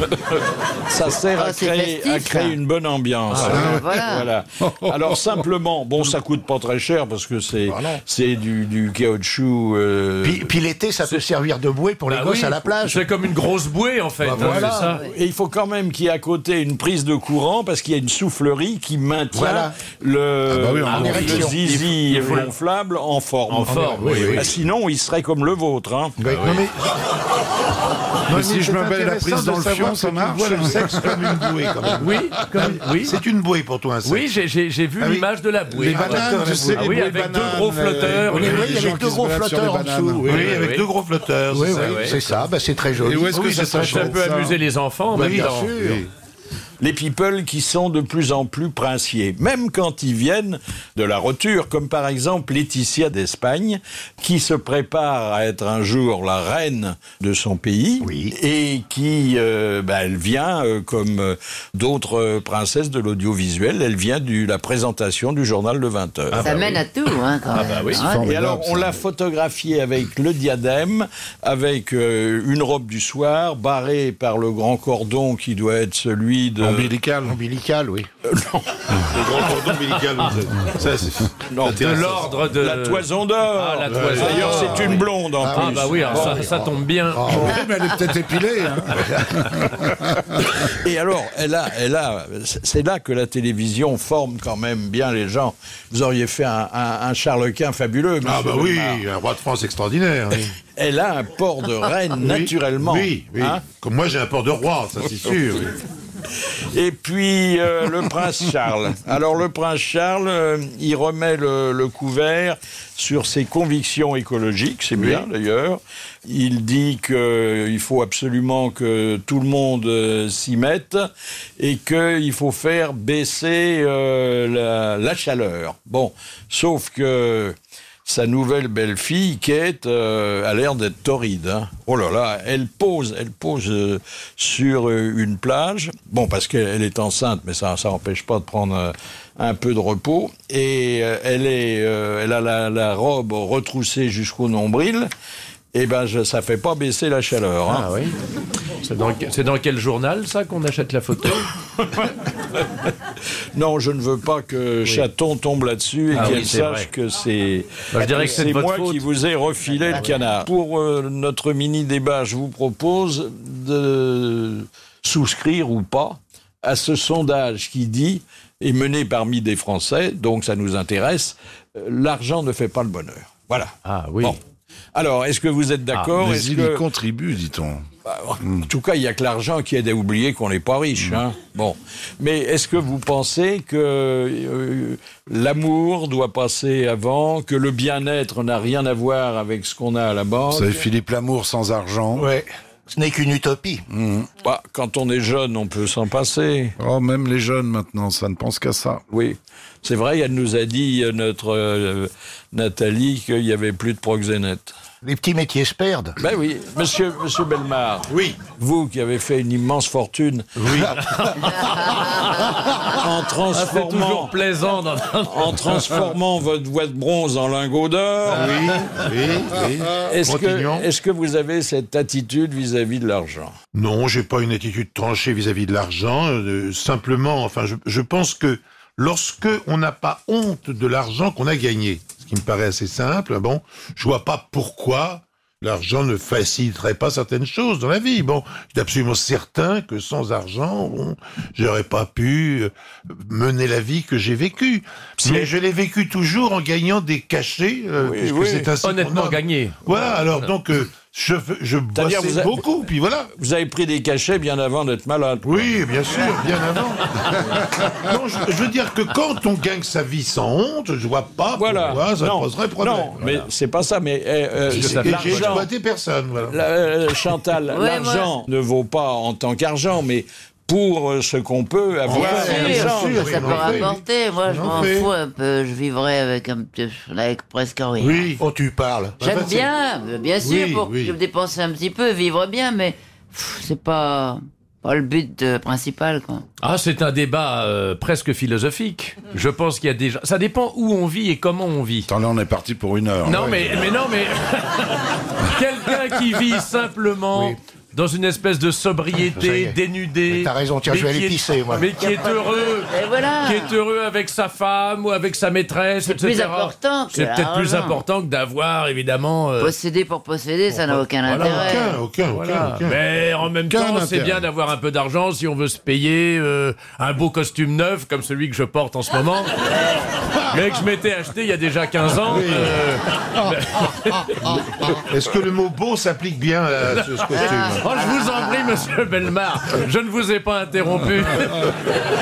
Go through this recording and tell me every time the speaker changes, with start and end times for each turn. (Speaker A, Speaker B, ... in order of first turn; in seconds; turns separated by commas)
Speaker A: 0.1-10.5, Speaker B: 1.3-2.6, Speaker C: 3.3-3.7, Speaker B: 3.4-4.3, Speaker D: 3.5-4.0, Speaker D: 4.6-5.4, Speaker E: 7.7-8.0, Speaker E: 10.2-13.1, Speaker C: 12.1-15.0, Speaker E: 14.2-14.9, Speaker A: 14.4-26.1, Speaker E: 19.3-19.7, Speaker D: 20.5-21.4, Speaker E: 20.9-21.6, Speaker C: 20.9-22.5, Speaker C: 23.5-24.5, Speaker E: 23.7-24.5, Speaker E: 26.2-26.6, Speaker C: 26.2-26.6, Speaker F: 26.4-26.9, Speaker F: 28.3-34.3, Speaker D: 28.3-31.5, Speaker C: 32.0-33.2, Speaker C: 34.0-38.8, Speaker F: 35.0-37.2, Speaker D: 35.7-40.5, Speaker E: 38.3-40.6, Speaker F: 40.2-42.2, Speaker C: 40.3-40.9, Speaker E: 41.5-43.4, Speaker C: 41.7-42.2, Speaker D: 43.0-44.6, Speaker F: 43.3-44.2, Speaker C: 43.8-46.0, Speaker F: 45.1-46.1, Speaker E: 45.1-46.0, Speaker A: 46.8-66.5, Speaker E: 58.0-58.3, Speaker C: 66.3-66.8, Speaker B: 66.3-68.3, Speaker C: 67.5-68.1, Speaker D: 67.9-69.0, Speaker A: 68.2-76.9, Speaker D: 76.6-77.4, Speaker E: 77.2-78.1, Speaker A: 78.3-79.2, Speaker F: 79.1-82.4, Speaker A: 81.5-86.5, Speaker C: 81.7-87.6, Speaker F: 83.9-84.9, Speaker E: 85.4-87.6, Speaker D: 87.3-90.4, Speaker A: 90.7-99.0, Speaker F: 98.2-100.5, Speaker A: 100.8-103.6, Speaker F: 102.2-105.8, Speaker A: 106.7-121.1, Speaker F: 115.0-115.2, Speaker A: 121.6-127.5, Speaker A: 128.1-145.1, Speaker A: 145.7-147.9, Speaker C: 147.7-148.2, Speaker C: 148.8-151.5, Speaker A: 151.8-152.1, Speaker A: 153.5-174.4, Speaker C: 156.1-156.9, Speaker C: 157.9-159.1, Speaker C: 159.8-160.2, Speaker C: 173.8-174.4, Speaker A: 174.9-176.8, Speaker D: 176.2-177.8, Speaker A: 178.1-190.9, Speaker D: 190.5-192.3, Speaker E: 192.1-193.8, Speaker D: 193.9-194.3, Speaker A: 194.4-196.7, Speaker D: 196.8-199.0, Speaker A: 199.1-204.7, Speaker E: 205.0-206.2, Speaker A: 206.2-210.6, Speaker F: 208.1-208.4, Speaker F: 210.6-210.9, Speaker C: 211.1-212.4, Speaker A: 212.9-214.3, Speaker C: 213.5-215.9, Speaker A: 215.2-218.6, Speaker F: 218.3-220.9, Speaker C: 218.5-219.0, Speaker A: 220.1-223.5, Speaker F: 223.7-253.3, Speaker A: 245.2-245.5, Speaker A: 248.0-248.7, Speaker C: 248.8-249.9, Speaker A: 251.9-252.6, Speaker A: 253.3-255.8, Speaker F: 255.4-257.1, Speaker F: 258.0-263.3, Speaker A: 261.6-265.7, Speaker F: 264.7-266.6, Speaker C: 264.7-265.6, Speaker A: 266.5-273.7, Speaker B: 267.7-268.3, Speaker F: 272.1-275.1, Speaker B: 272.1-278.3, Speaker F: 278.0-278.4, Speaker E: 278.4-279.2, Speaker F: 279.2-279.7, Speaker B: 279.2-286.4, Speaker F: 280.4-281.1, Speaker C: 286.6-292.1, Speaker D: 292.1-293.9, Speaker C: 293.2-309.7, Speaker E: 299.3-301.9, Speaker B: 302.9-303.8, Speaker B: 306.1-308.0, Speaker B: 309.6-312.0, Speaker C: 310.7-319.6, Speaker F: 311.4-313.0, Speaker D: 313.7-314.5, Speaker C: 320.5-324.6, Speaker F: 325.1-327.8, Speaker C: 326.9-331.8, Speaker B: 327.4-328.7